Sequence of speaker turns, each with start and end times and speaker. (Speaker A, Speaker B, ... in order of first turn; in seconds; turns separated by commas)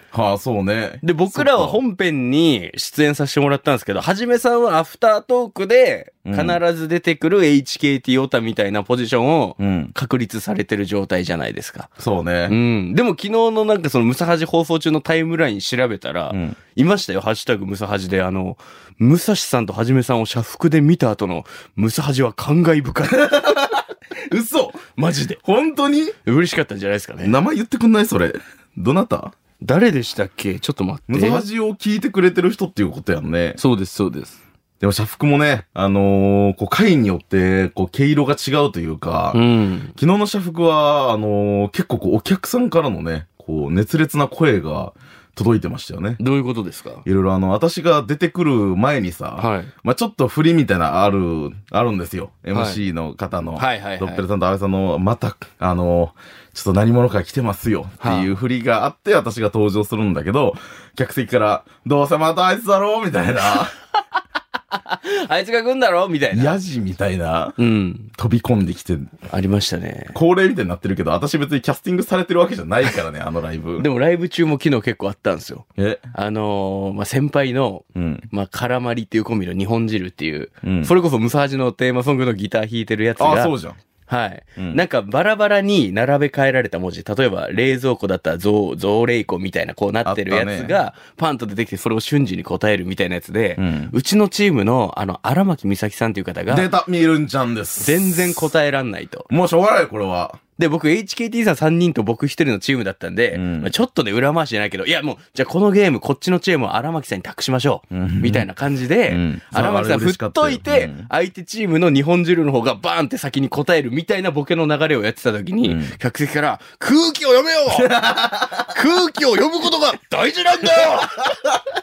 Speaker A: 0.1-1.8, Speaker B: 1.0-11.9, Speaker A: 6.2-6.6, Speaker A: 9.6-9.9, Speaker A: 12.0-12.6, Speaker B: 12.5-23.4, Speaker A: 16.3-16.6, Speaker A: 23.1-24.9, Speaker B: 25.0-25.4, Speaker A: 25.4-26.2, Speaker B: 26.2-27.4, Speaker A: 27.2-29.3, Speaker B: 29.6-31.4, Speaker A: 31.1-33.6, Speaker B: 33.6-34.4, Speaker A: 34.8-39.4, Speaker B: 39.3-40.0, Speaker A: 40.0-46.2, Speaker B: 46.2-47.0, Speaker A: 47.0-63.7, Speaker B: 49.4-49.7, Speaker B: 52.5-52.8, Speaker B: 53.6-54.2, Speaker B: 58.0-58.3, Speaker B: 64.8-66.5, Speaker A: 66.3-67.6, Speaker B: 67.6-68.1, Speaker A: 68.2-69.2, Speaker B: 69.3-70.2, Speaker A: 70.1-73.9, Speaker B: 73.8-83.5, Speaker A: 75.8-76.0, Speaker A: 78.0-78.3, Speaker A: 80.6-80.9, Speaker A: 83.2-83.8, Speaker B: 84.1-96.7, Speaker A: 90.0-90.8, Speaker A: 93.6-93.9, Speaker A: 96.5-98.4, Speaker B: 97.8-99.3, Speaker A: 99.3-100.4, Speaker B: 100.6-118.0, Speaker A: 103.3-103.7, Speaker A: 107.9-108.5, Speaker A: 109.1-111.1, Speaker A: 115.6-115.9, Speaker A: 117.7-118.7, Speaker B: 118.7-121.3